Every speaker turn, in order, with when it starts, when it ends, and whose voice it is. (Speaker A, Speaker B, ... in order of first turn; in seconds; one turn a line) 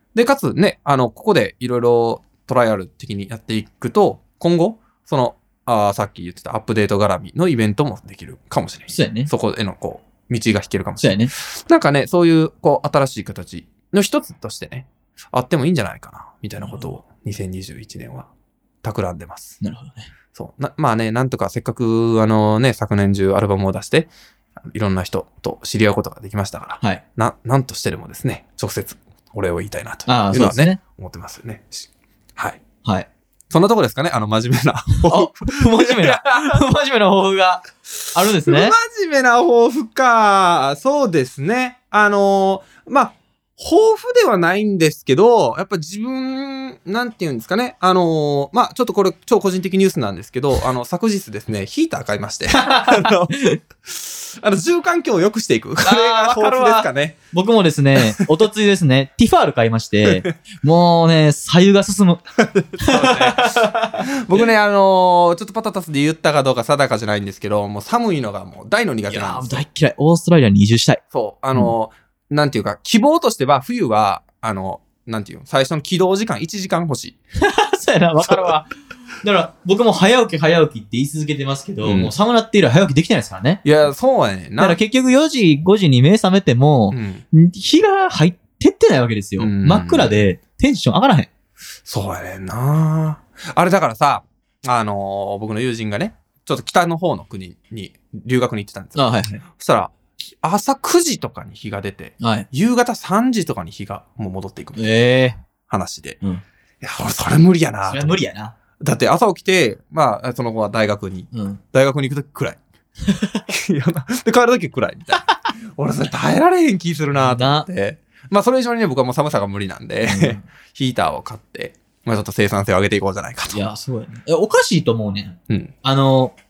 Speaker A: 0.1-18.3
Speaker B: 8.9-9.3
Speaker B: 11.0-11.3
Speaker B: 16.6-16.9
Speaker A: 18.8-19.6
Speaker B: 19.6-20.1
Speaker A: 20.3-24.1
Speaker A: 24.7-32.6
Speaker B: 30.1-30.8
Speaker A: 33.5-36.7
Speaker B: 35.0-38.8
Speaker A: 38.3-57.2
Speaker B: 52.6-53.6
Speaker B: 55.8-62.2
Speaker A: 60.1-60.3
Speaker A: 62.5-69.7
Speaker B: 62.8-64.4
Speaker B: 69.1-71.0
Speaker A: 71.1-77.2
Speaker B: 77.4-78.7
Speaker B: 79.2-83.7
Speaker A: 81.8-82.1
Speaker A: 83.6-84.8
Speaker B: 84.6-91.3
Speaker A: 86.9-87.2
Speaker A: 89.4-90.2
Speaker A: 91.9-104.8
Speaker B: 99.0-99.4
Speaker B: 102.2-102.5
Speaker B: 104.8-105.4
Speaker A: 105.7-106.2
Speaker A: 106.8-108.2
Speaker B: 107.9-108.5
Speaker A: 108.8-112.6
Speaker B: 111.3-111.6
Speaker B: 113.0-113.4
Speaker A: 113.5-123.6
Speaker B: 117.1-117.7
Speaker B: 120.0-120.5
Speaker B: 123.5-126.3